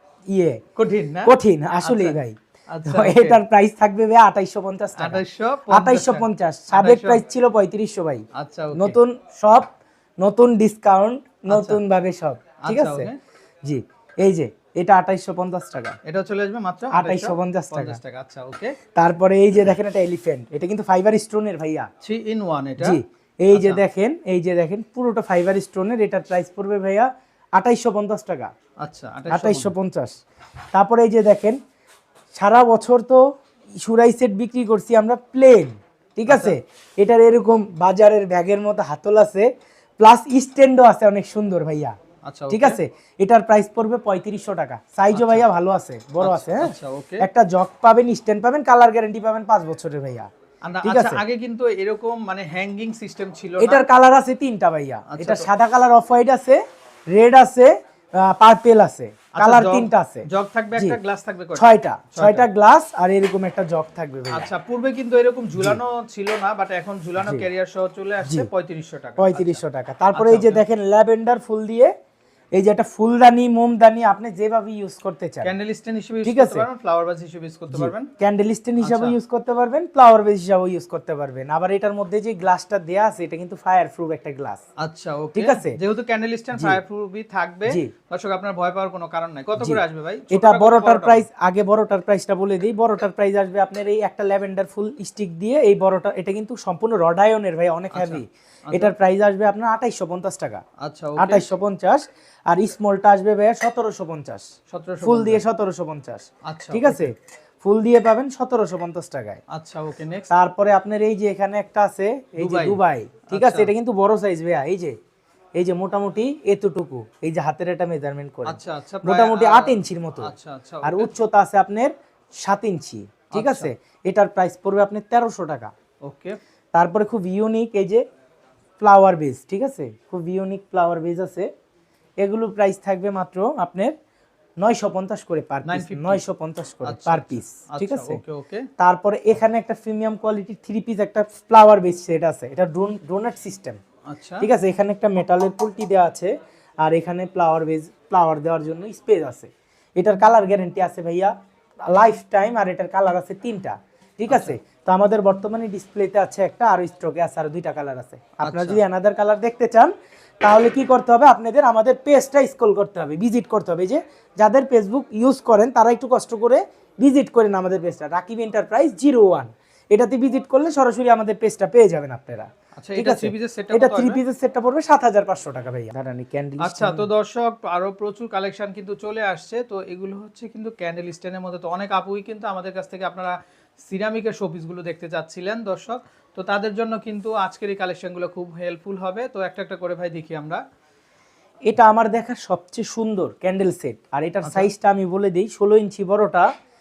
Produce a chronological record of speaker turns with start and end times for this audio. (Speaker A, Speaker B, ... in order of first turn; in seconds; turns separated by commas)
Speaker A: 0.3-0.6, Speaker B: 0.8-2.2, Speaker A: 1.2-13.1, Speaker B: 2.7-3.4, Speaker B: 5.0-7.2, Speaker B: 8.3-9.0, Speaker B: 11.5-11.8, Speaker B: 12.6-13.2, Speaker A: 13.6-16.0, Speaker B: 16.0-18.8, Speaker A: 16.9-18.0, Speaker A: 18.9-21.9, Speaker B: 22.0-23.9, Speaker A: 22.8-28.5, Speaker B: 28.8-29.8, Speaker A: 29.3-30.1, Speaker A: 30.7-31.6, Speaker A: 32.3-33.2, Speaker A: 33.8-42.0, Speaker B: 36.3-36.6, Speaker B: 42.2-42.8, Speaker A: 42.5-50.3, Speaker B: 45.1-45.5, Speaker B: 46.2-47.3, Speaker B: 50.6-53.9, Speaker A: 50.8-51.2, Speaker A: 53.6-61.0, Speaker B: 55.1-55.5, Speaker B: 59.4-62.5, Speaker A: 61.6-64.5, Speaker B: 64.3-70.6, Speaker A: 68.2-68.5, Speaker A: 69.2-71.9, Speaker A: 72.5-75.5, Speaker B: 75.4-78.1, Speaker A: 76.2-76.7, Speaker A: 77.7-84.6, Speaker B: 78.8-79.2, Speaker B: 84.8-91.3, Speaker A: 85.3-85.8, Speaker A: 86.5-86.8, Speaker A: 89.6-100.6, Speaker B: 97.9-98.9, Speaker B: 100.8-101.5, Speaker A: 101.2-104.5, Speaker B: 104.7-105.4, Speaker A: 105.0-109.4, Speaker B: 106.5-107.1, Speaker B: 109.5-110.3, Speaker A: 110.3-115.0, Speaker B: 112.4-113.7, Speaker A: 115.6-120.3, Speaker B: 118.5-121.1, Speaker A: 120.8-125.7, Speaker B: 123.3-123.7, Speaker B: 126.0-126.4, Speaker A: 126.7-128.0, Speaker A: 128.8-131.5, Speaker A: 132.2-133.9, Speaker A: 134.6-138.2, Speaker B: 135.7-136.2, Speaker B: 136.8-138.7, Speaker A: 138.8-143.8, Speaker B: 144.1-144.5, Speaker A: 144.4-151.3, Speaker A: 151.9-177.1, Speaker B: 154.3-154.6, Speaker B: 158.4-158.8, Speaker B: 172.8-174.2, Speaker B: 176.6-190.6, Speaker A: 191.7-196.5, Speaker B: 194.4-194.7